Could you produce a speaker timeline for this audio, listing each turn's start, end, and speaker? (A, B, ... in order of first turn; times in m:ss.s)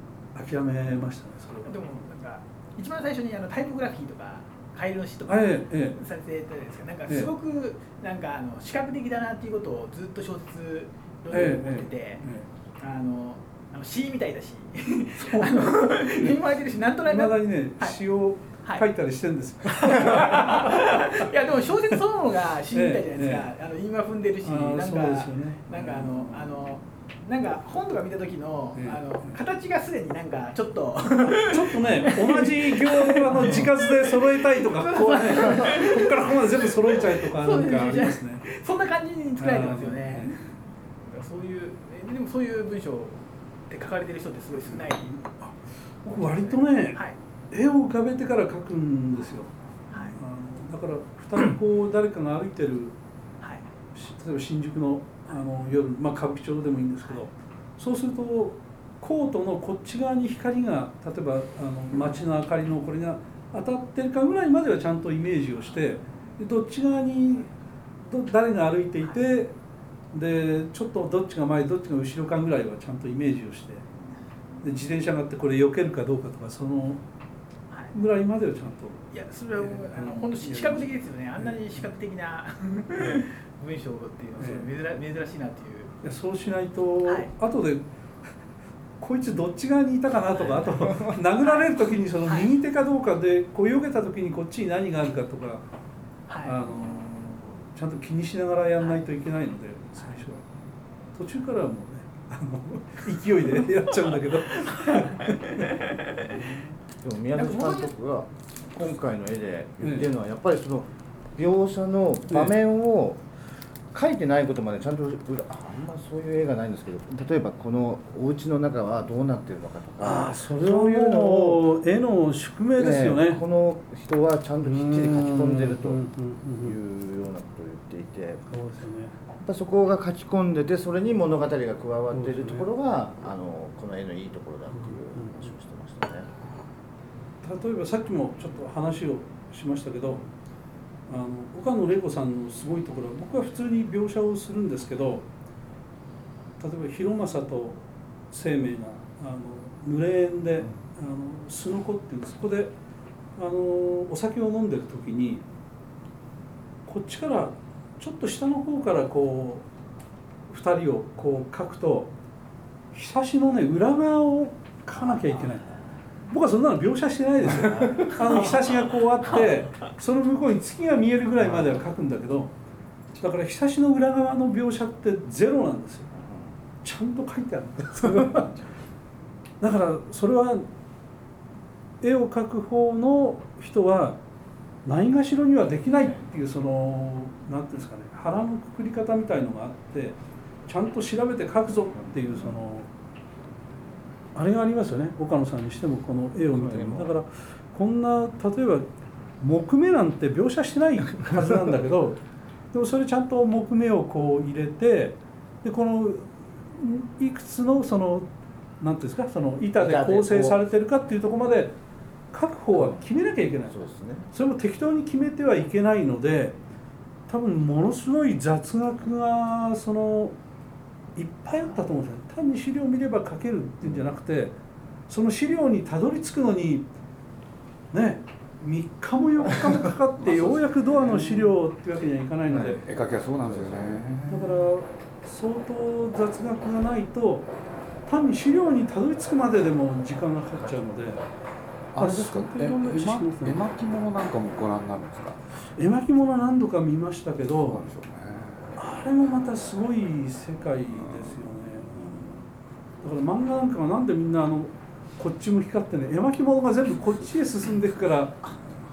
0:00.3-0:02.0 A
0:01.6-0:12.3 B
0:05.3-0:06.0 A
0:07.1-0:07.3 A
0:11.3-0:12.5 A
0:12.8-0:18.0 B
0:15.1-0:16.4 A
0:17.0-0:21.3 A
0:19.7-0:40.4 B
0:22.7-0:23.5 A
0:24.4-0:26.7 A
0:28.7-0:29.4 A
0:31.3-0:38.5 A
0:39.4-0:40.5 A
0:41.0-0:45.1 B
0:44.6-0:53.0 A
0:46.2-0:47.1 B
0:49.9-0:50.2 B
0:53.9-1:07.5 A
1:08.0-1:09.5 A
1:10.1-1:13.9 A
1:14.6-1:17.0 A
1:17.9-1:21.7 A
1:19.1-1:25.9 B
1:23.0-1:23.2 A
1:24.4-1:24.7 A
1:26.0-1:27.8 A
1:27.0-1:27.3 B
1:29.0-1:35.6 A
1:31.4-1:32.5 B
1:36.3-1:36.6 B
1:36.4-1:40.4 A
1:41.1-1:46.7 A
1:47.0-1:53.2 C
1:47.4-1:47.8 A
1:49.8-1:50.1 A
1:52.3-1:52.5 A
1:53.9-2:01.7 C
2:00.0-2:03.4 A
2:02.8-2:06.0 C
2:04.6-2:06.8 A
2:06.6-2:08.4 C
2:08.5-2:09.1 A
2:09.4-2:16.3 C
2:12.1-2:12.7 A
2:14.7-2:15.4 A
2:17.4-2:20.2 A
2:21.1-2:25.2 A
2:26.6-2:32.7 A
2:33.4-2:35.4 A
2:36.8-2:39.6 A
2:40.5-2:42.1 A
2:42.9-2:52.5 A
2:53.2-2:56.1 A
2:56.8-2:58.5 A
2:59.6-3:00.7 A
3:02.0-3:04.2 A
3:04.8-3:12.9 A
3:14.3-3:18.9 A
3:16.5-3:17.1 C
3:19.4-3:28.3 A
3:28.8-3:31.7 A
3:29.8-3:30.6 C
3:32.3-3:33.8 A
3:32.7-3:33.0 C
3:33.6-3:34.3 C
3:34.3-3:36.6 A
3:37.3-3:40.3 A
3:41.2-3:44.5 A
3:45.1-3:46.9 A
3:47.9-3:52.8 A
3:50.2-3:51.6 D
3:52.5-3:54.6 D
3:54.3-3:57.5 A
3:58.1-4:01.2 A
4:01.9-4:05.4 D
4:02.0-4:03.6 A
4:05.8-4:07.8 A
4:07.6-4:08.7 D
4:08.8-4:12.4 A
4:10.9-4:11.5 D
4:13.0-4:18.4 A